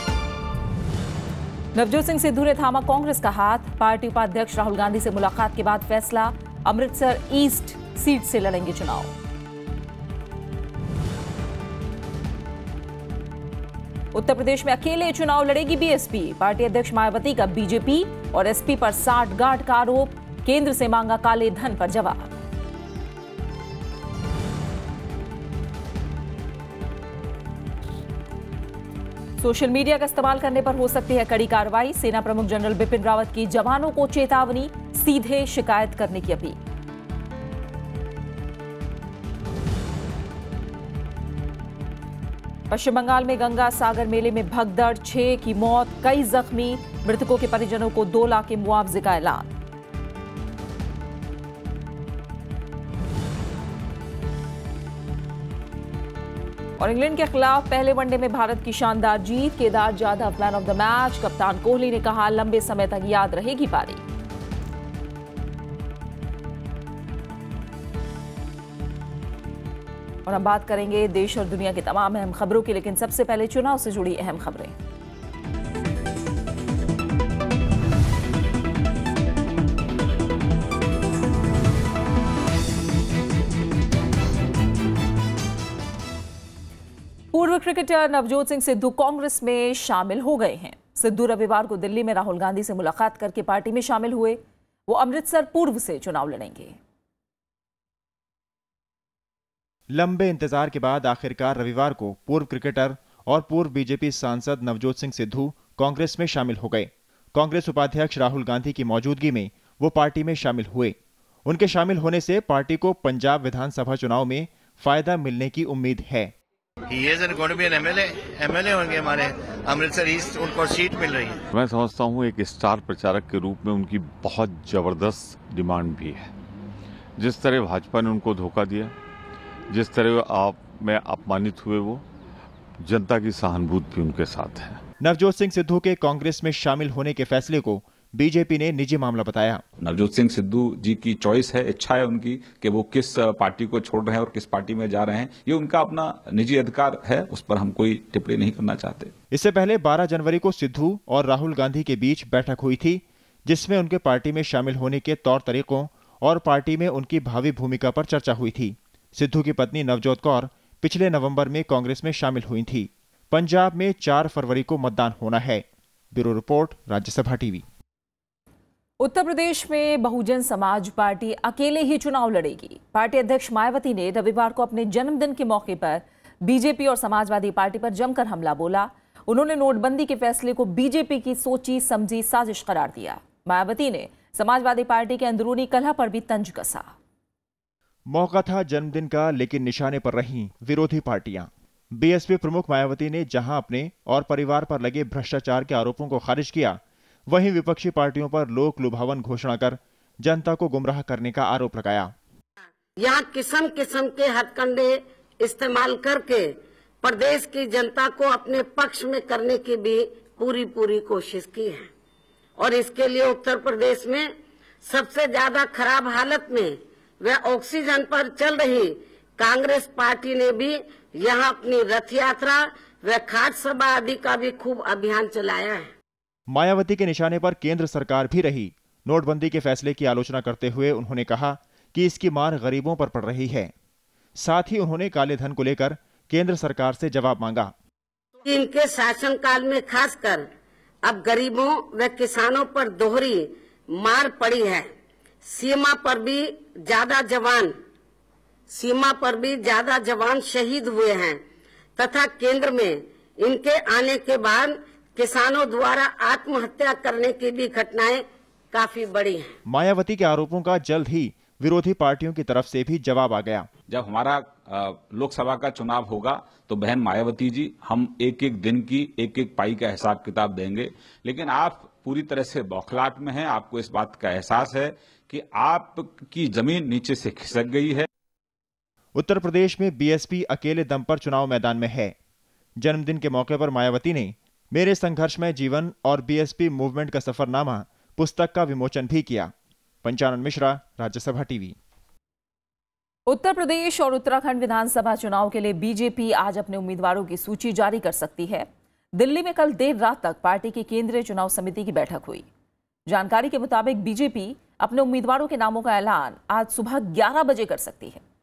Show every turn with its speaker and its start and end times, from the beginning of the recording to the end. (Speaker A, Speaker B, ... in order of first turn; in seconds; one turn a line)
Speaker A: 1.8-9.1
Speaker A: 14.1-22.3
Speaker A: 29.4-36.6
Speaker A: 42.7-49.5
Speaker A: 56.8-64.0
Speaker A: 70.3-74.8
Speaker A: 87.3-96.8
Speaker B: 99.9-116.3
Speaker C: 116.9-121.4
Speaker D: 121.5-126.3
Speaker D: 127.2-128.9
Speaker D: 129.7-132.1
Speaker D: 132.8-134.8
Speaker B: 135.0-139.6
Speaker E: 139.8-149.1
Speaker B: 149.3-167.7
Speaker A: 169.0-186.9
Speaker B: 188.1-202.1
Speaker F: 203.0-211.9
Speaker F: 212.6-214.3
Speaker F: 214.8-225.9
Speaker B: 226.5-233.7
Speaker B: 234.4-237.7
Speaker F: 238.4-240.5
Speaker F: 241.0-244.9
Speaker F: 245.4-247.7
Speaker F: 248.7-251.4
Speaker F: 252.0-259.6
Speaker B: 259.7-263.7
Speaker E: 263.9-278.1
Speaker B: 279.1-282.1
Speaker B: 282.8-289.5
Speaker B: 290.0-291.8
Speaker A: 293.3-302.5
Speaker A: 303.1-308.2